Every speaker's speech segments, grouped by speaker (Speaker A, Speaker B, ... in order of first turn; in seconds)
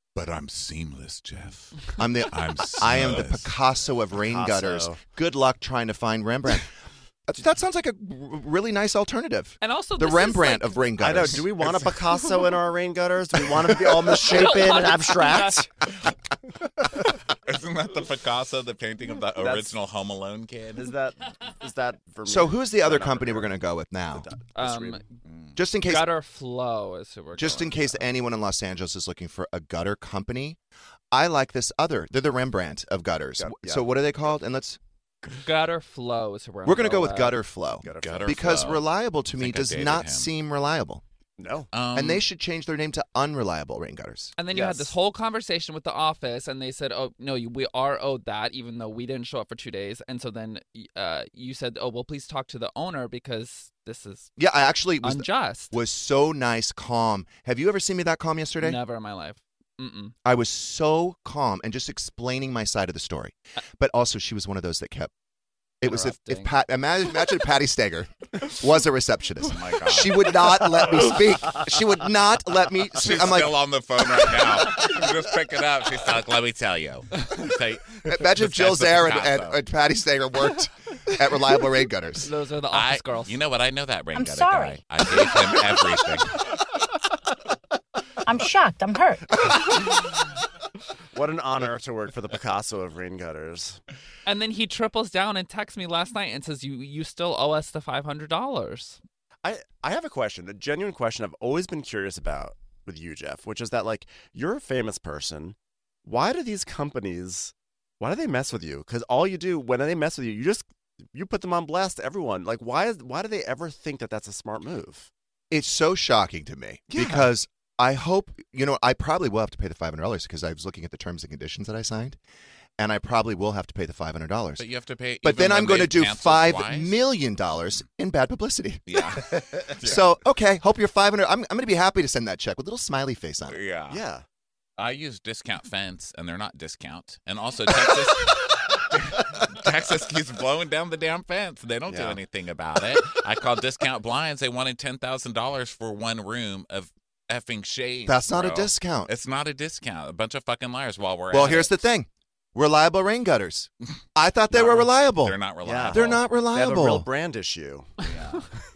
Speaker A: 0.1-3.5, 17.4-20.9, 25.3-25.6, 38.0-40.3, 41.7-42.3, 69.4-70.6, 73.0-79.6, 82.7-86.4, 124.6-127.0, 128.9-130.1, 133.5-134.0, 134.8-151.8, 154.6-156.2, 158.0-158.4
Speaker B: 2.0-6.7, 7.3-11.5, 22.2-24.3, 25.6-26.1, 27.4-30.6, 31.1-34.8, 36.6-41.0, 41.9-44.4, 54.4-58.8, 60.2-65.1, 65.8-73.6, 78.0-82.3, 115.5-122.2, 122.8-124.7, 125.2-133.6, 148.1-149.1, 151.3-155.4, 155.9-157.1
Speaker C: 4.2-5.0, 11.0-15.9, 19.4-19.8, 20.8-23.5, 24.1-25.0, 33.4-33.9, 37.8-38.7, 41.4-41.7, 44.5-44.9, 91.1-93.8, 99.4-115.1, 116.9-117.3, 133.9-134.2, 141.9-142.2, 155.6-158.0
Speaker D: 9.6-11.2, 14.3-15.6, 24.6-25.1, 25.8-28.1, 35.4-37.4, 44.4-54.3, 55.0-55.8, 58.6-60.2, 65.9-66.6, 82.2-83.4, 94.3-99.0
Speaker E: 84.1-85.3, 88.3-89.3